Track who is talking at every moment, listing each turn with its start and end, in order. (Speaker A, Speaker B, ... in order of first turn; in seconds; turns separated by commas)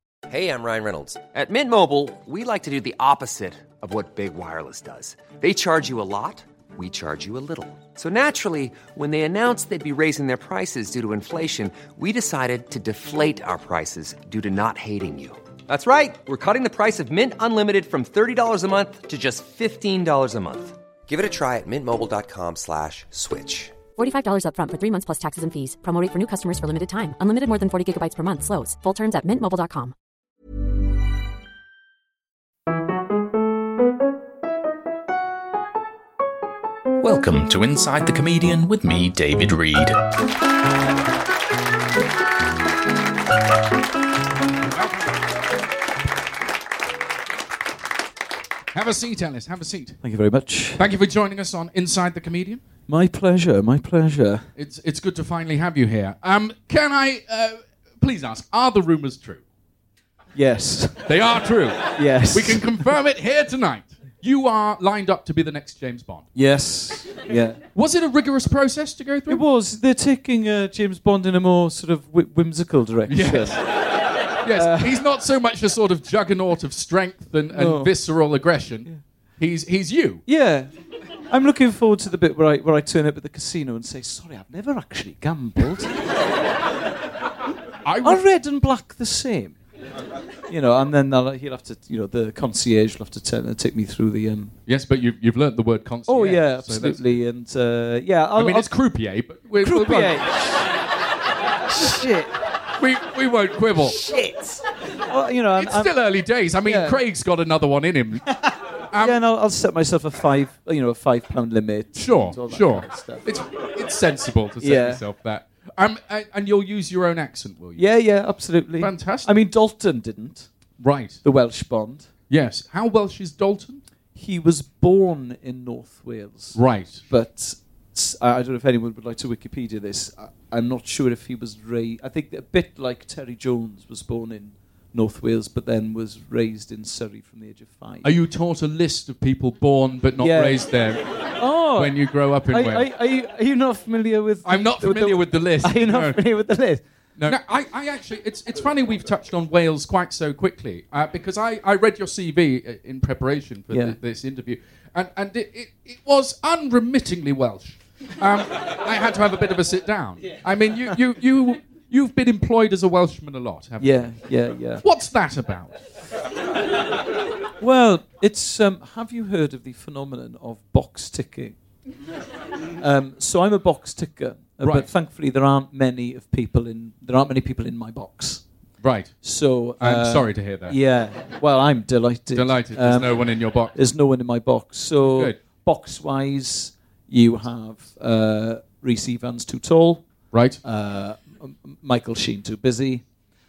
Speaker A: 0.3-23.8, Speaker B: 24.0-29.9, Speaker C: 37.0-40.0, Speaker D: 48.7-50.0, Speaker E: 50.0-50.8, Speaker D: 50.7-52.6, Speaker E: 52.9-54.5, Speaker D: 54.5-59.4, Speaker E: 60.3-61.3, Speaker D: 61.0-66.3, Speaker E: 61.8-62.9, Speaker E: 66.3-67.6, Speaker D: 67.7-69.4, Speaker E: 69.3-75.0, Speaker D: 73.1-80.2, Speaker E: 77.5-78.1, Speaker E: 80.2-80.7, Speaker E: 81.3-86.0, Speaker D: 87.8-88.2, Speaker E: 88.0-89.6, Speaker E: 90.5-94.5, Speaker D: 94.7-97.2, Speaker E: 96.1-98.7, Speaker D: 98.3-100.3, Speaker E: 99.6-100.7, Speaker E: 101.7-102.4, Speaker D: 102.8-104.0, Speaker E: 103.8-105.9, Speaker D: 105.5-109.2, Speaker E: 106.6-107.0, Speaker E: 108.3-113.3, Speaker D: 112.0-118.0, Speaker E: 114.6-115.0, Speaker E: 117.8-120.5, Speaker D: 118.8-119.3, Speaker D: 120.8-121.2, Speaker E: 121.2-122.1, Speaker D: 122.3-123.8, Speaker E: 124.1-138.1, Speaker D: 126.5-127.0, Speaker D: 138.0-142.9, Speaker E: 140.2-140.8, Speaker E: 141.4-147.3, Speaker D: 144.4-146.2, Speaker D: 147.2-165.8, Speaker E: 153.7-153.9, Speaker E: 163.8-164.8, Speaker E: 167.6-171.6, Speaker E: 172.8-178.5, Speaker D: 174.6-174.9, Speaker D: 178.8-180.8, Speaker E: 179.2-190.1, Speaker D: 182.3-183.8, Speaker D: 190.3-190.6, Speaker E: 190.6-193.1